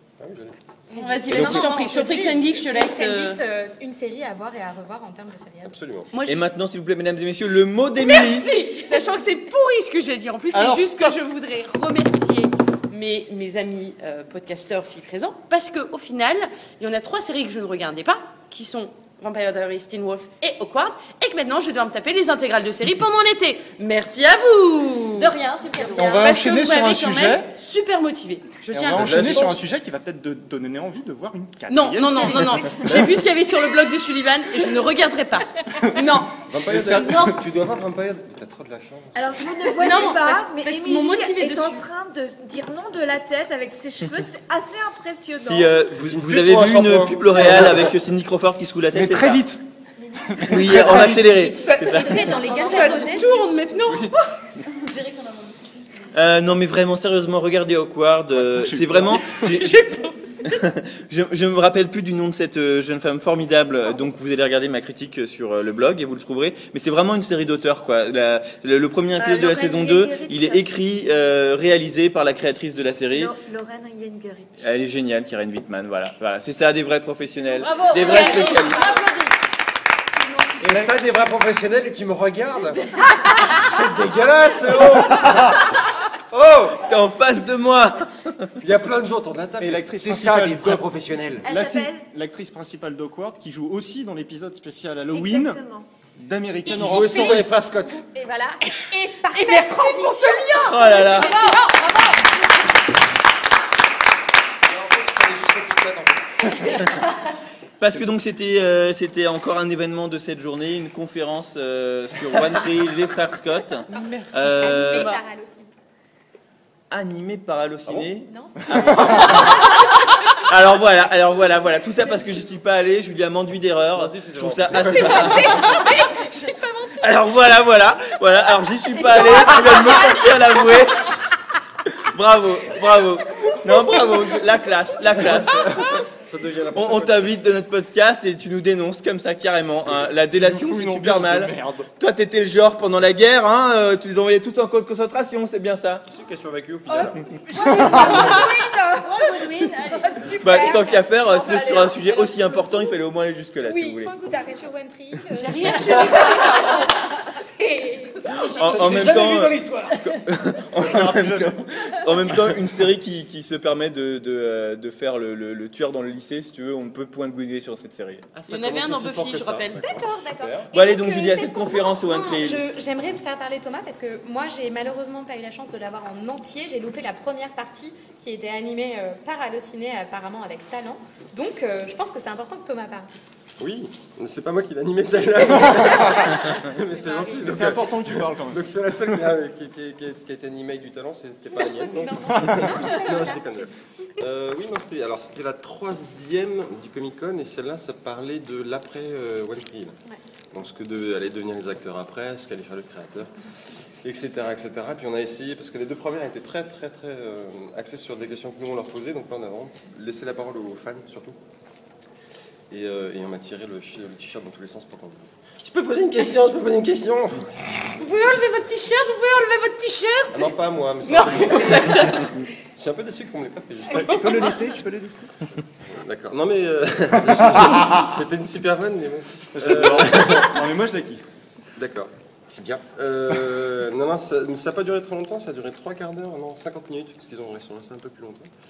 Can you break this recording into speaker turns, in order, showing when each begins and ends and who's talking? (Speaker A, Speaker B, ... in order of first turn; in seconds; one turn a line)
Speaker A: 0.2-0.6
Speaker B: 0.9-3.4
Speaker C: 0.9-5.8
Speaker A: 1.3-1.6
Speaker A: 5.6-6.1
Speaker B: 6.1-6.5
Speaker D: 6.2-8.6
Speaker B: 8.0-25.3
Speaker E: 10.5-11.2
Speaker F: 25.1-26.4
Speaker E: 25.9-27.5
Speaker B: 26.0-29.6
Speaker E: 28.7-33.0
Speaker A: 28.9-29.6
Speaker B: 31.7-37.4
Speaker A: 36.4-39.2
Speaker G: 39.1-45.8
Speaker B: 39.7-41.9
Speaker D: 45.4-49.5
Speaker A: 45.9-47.9
Speaker E: 48.9-49.6
Speaker E: 50.2-51.4
Speaker D: 50.4-52.3
Speaker B: 51.6-54.4
Speaker C: 51.6-53.5
Speaker F: 52.5-53.0
Speaker E: 53.8-54.2
Speaker D: 56.1-59.8
Speaker E: 58.3-59.7
Speaker B: 59.6-60.5
Speaker D: 60.4-73.3
Speaker G: 69.1-70.7
Speaker G: 73.1-74.6
Speaker D: 74.6-78.8
Speaker F: 77.6-79.2
Speaker G: 77.7-79.1
Speaker A: 80.6-85.6
Speaker A: 86.3-86.9
Speaker D: 86.8-88.5
Speaker A: 88.6-91.5
Speaker E: 89.6-90.9
Speaker G: 91.4-92.1
Speaker E: 91.4-95.6
Speaker G: 95.1-95.9
Speaker E: 96.2-97.5
Speaker C: 96.7-102.2
Speaker A: 96.7-98.0
Speaker B: 99.3-102.0
Speaker D: 100.6-101.3
Speaker A: 104.7-106.6
Speaker D: 107.8-115.1
Speaker B: 113.9-115.2
Speaker C: 114.6-115.7
Speaker D: 116.9-125.7
Speaker A: 117.9-118.1
Speaker C: 118.3-119.5
Speaker A: 123.9-125.6
Speaker C: 124.7-127.4
Speaker D: 127.0-131.2
Speaker B: 129.2-130.1
Speaker D: 132.1-136.0
Speaker A: 135.1-137.4
Speaker D: 136.7-146.1
Speaker E: 140.3-141.9
Speaker A: 146.1-148.4
Speaker G: 146.9-151.6
Speaker C: 148.1-148.4
Speaker C: 150.2-152.9
Speaker D: 150.4-154.2
Speaker C: 153.6-158.4
Speaker G: 156.1-156.7
Speaker D: 158.5-168.3
Speaker E: 158.6-160.2
Speaker E: 160.7-161.6
Speaker A: 168.3-170.7
Speaker B: 168.5-169.8
Speaker C: 169.8-183.1
Speaker D: 170.7-172.7
Speaker A: 183.6-199.9
Speaker C: 186.0-187.4
Speaker E: 187.4-189.2
Speaker C: 192.1-193.7
Speaker A: 200.5-203.3
Speaker A: 204.0-211.4
Speaker A: 212.7-217.9
Speaker B: 218.0-222.3
Speaker A: 220.3-224.6
Speaker E: 223.9-225.4
Speaker A: 225.8-230.6
Speaker E: 229.5-231.2
Speaker A: 231.8-238.5